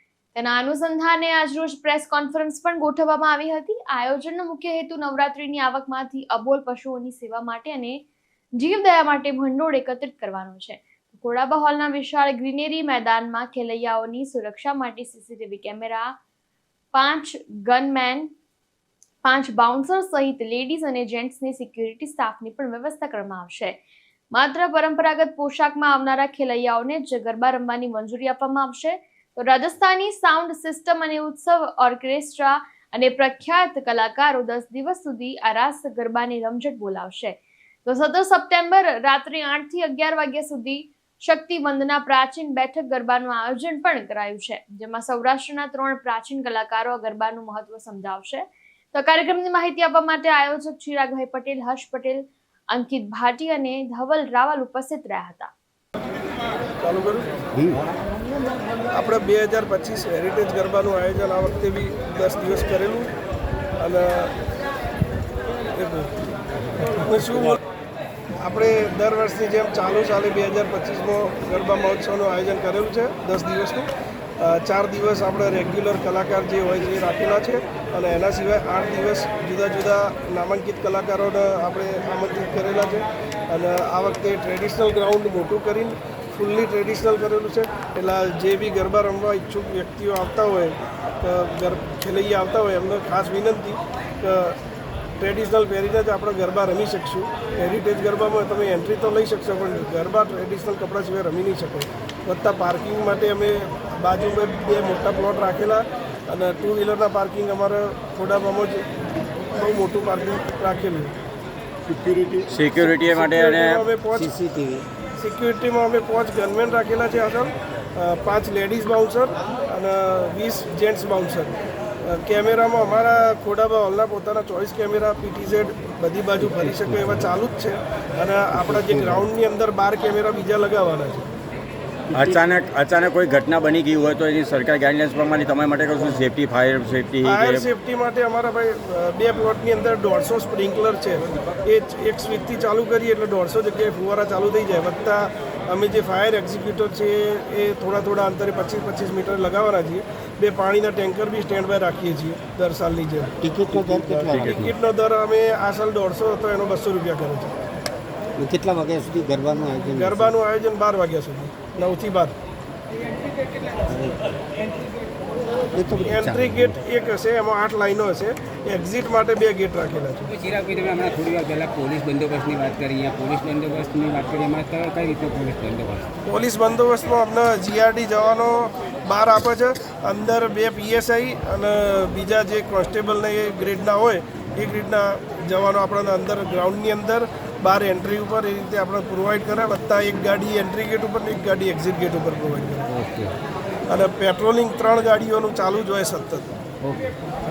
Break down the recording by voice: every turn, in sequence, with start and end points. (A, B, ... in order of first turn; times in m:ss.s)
0:00.3-0:08.0 A
0:08.6-0:16.2 A
0:16.9-0:18.3 A
0:19.2-0:23.8 A
0:24.3-0:55.5 A
0:56.8-0:57.3 B
0:58.9-1:03.1 B
1:03.8-1:04.3 B
1:05.7-1:06.1 B
1:06.8-1:07.6 B
1:08.4-1:13.9 B
1:14.4-1:34.6 B
1:35.2-1:48.9 B
1:49.5-1:51.1 B
1:52.3-1:54.3 B
1:52.5-1:53.8 C
1:54.1-1:54.8 D
1:55.2-2:01.5 B
2:02.1-2:11.3 B
2:08.5-2:09.2 D
2:12.1-2:12.4 D
2:12.1-2:17.7 C
2:17.2-2:37.5 B
2:33.4-2:34.7 D
2:38.4-2:40.3 D
2:39.9-2:42.3 B
2:43.8-2:44.3 D
2:45.7-2:46.8 D
2:46.1-2:50.3 B
2:50.3-2:56.1 E
2:56.2-3:12.9 B
3:12.9-3:13.3 E
3:13.9-3:16.5 B
3:16.8-3:17.1 E